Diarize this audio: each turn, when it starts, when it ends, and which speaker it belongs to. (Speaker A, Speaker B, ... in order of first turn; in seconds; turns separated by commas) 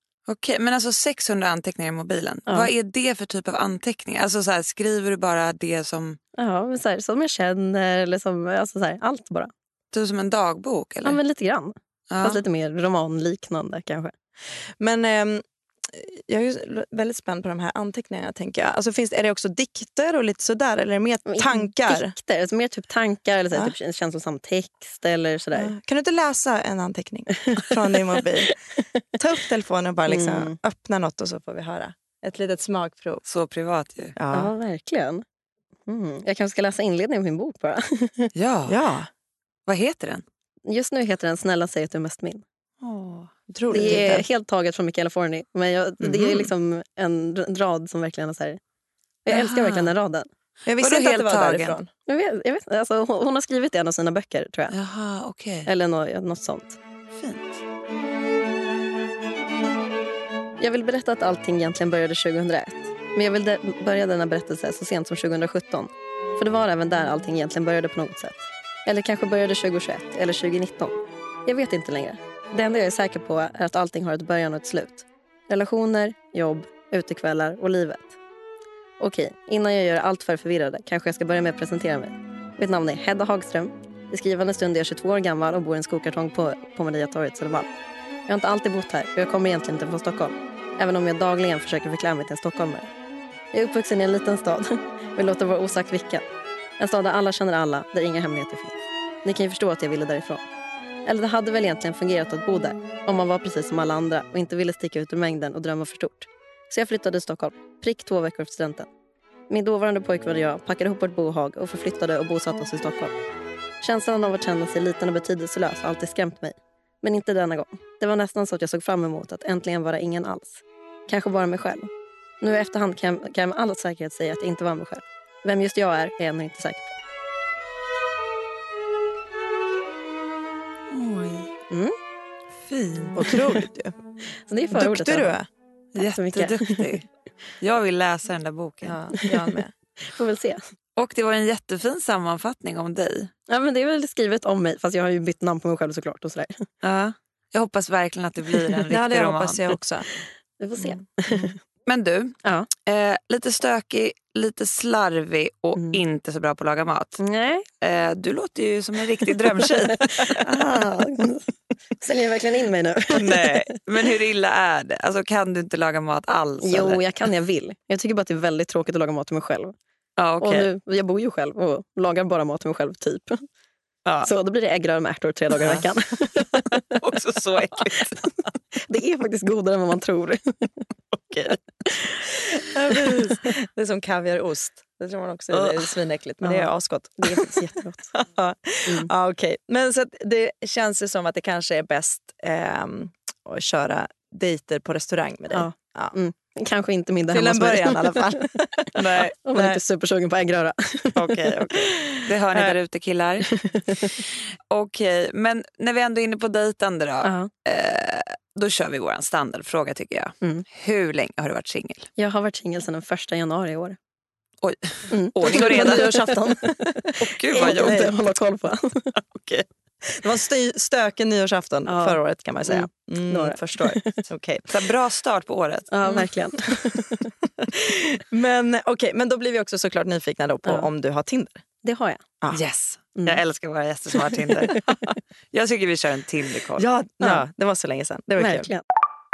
Speaker A: 0.3-6.2, Speaker B: 6.4-9.5, Speaker A: 9.9-11.2, Speaker B: 11.0-14.1, Speaker A: 12.1-12.4, Speaker C: 14.8-22.1, Speaker B: 21.2-25.7, Speaker C: 25.5-28.6, Speaker B: 27.5-29.0, Speaker C: 29.1-33.2, Speaker B: 30.1-30.6, Speaker A: 33.2-34.2, Speaker C: 34.1-34.5, Speaker B: 34.3-35.2, Speaker B: 35.9-38.3, Speaker A: 38.3-38.8, Speaker C: 38.7-39.1, Speaker A: 39.7-40.2, Speaker B: 40.6-42.4, Speaker A: 42.8-43.3, Speaker C: 43.5-44.2, Speaker B: 43.7-48.6, Speaker C: 46.0-46.5, Speaker B: 49.2-50.3, Speaker A: 49.3-49.9, Speaker C: 50.6-51.9, Speaker A: 50.8-51.8, Speaker B: 52.0-54.7, Speaker A: 54.7-55.7, Speaker B: 55.6-56.8, Speaker A: 57.1-57.6, Speaker B: 60.6-78.2, Speaker B: 79.0-87.7, Speaker B: 88.3-92.9, Speaker B: 93.5-96.2, Speaker B: 96.8-100.4, Speaker B: 101.0-108.9, Speaker B: 109.5-113.1, Speaker B: 113.8-121.9, Speaker B: 122.4-127.0, Speaker A: 130.9-131.5, Speaker B: 131.7-131.9, Speaker A: 132.7-133.2, Speaker C: 133.2-133.9, Speaker B: 134.5-135.3, Speaker C: 134.7-135.5, Speaker A: 135.9-137.1, Speaker B: 135.9-136.9, Speaker A: 137.6-139.1, Speaker C: 138.8-139.7, Speaker B: 140.1-140.6, Speaker A: 140.9-143.3, Speaker B: 143.5-146.7, Speaker A: 146.8-149.8, Speaker C: 148.9-150.1, Speaker B: 150.6-151.5, Speaker A: 151.8-157.2, Speaker B: 152.4-152.7, Speaker B: 155.7-156.0, Speaker B: 157.2-157.7, Speaker A: 157.8-160.8, Speaker B: 159.6-163.8, Speaker A: 163.1-167.0, Speaker B: 166.6-169.7, Speaker A: 170.2-170.7, Speaker B: 170.4-173.4, Speaker A: 174.0-174.3, Speaker B: 174.2-177.0, Speaker A: 176.7-178.3, Speaker B: 178.8-180.6, Speaker C: 182.7-187.5, Speaker A: 185.5-185.8, Speaker B: 186.4-186.7, Speaker B: 187.2-188.1, Speaker C: 188.1-196.1, Speaker B: 188.8-189.1, Speaker B: 195.5-198.4, Speaker C: 197.3-199.8, Speaker A: 198.9-199.3, Speaker B: 199.4-201.2, Speaker A: 201.2-212.1, Speaker C: 201.7-202.8, Speaker B: 203.6-204.1, Speaker B: 207.2-207.5, Speaker B: 212.2-214.0, Speaker A: 214.6-216.2, Speaker B: 215.1-219.1, Speaker C: 215.4-218.1, Speaker A: 217.2-218.1, Speaker A: 219.2-219.6, Speaker C: 220.1-224.7, Speaker B: 221.9-224.2, Speaker A: 224.7-226.3, Speaker B: 225.9-227.3, Speaker C: 227.6-231.6, Speaker B: 231.8-232.2, Speaker A: 232.5-236.8, Speaker B: 234.3-234.8, Speaker C: 236.8-238.7, Speaker B: 238.4-238.8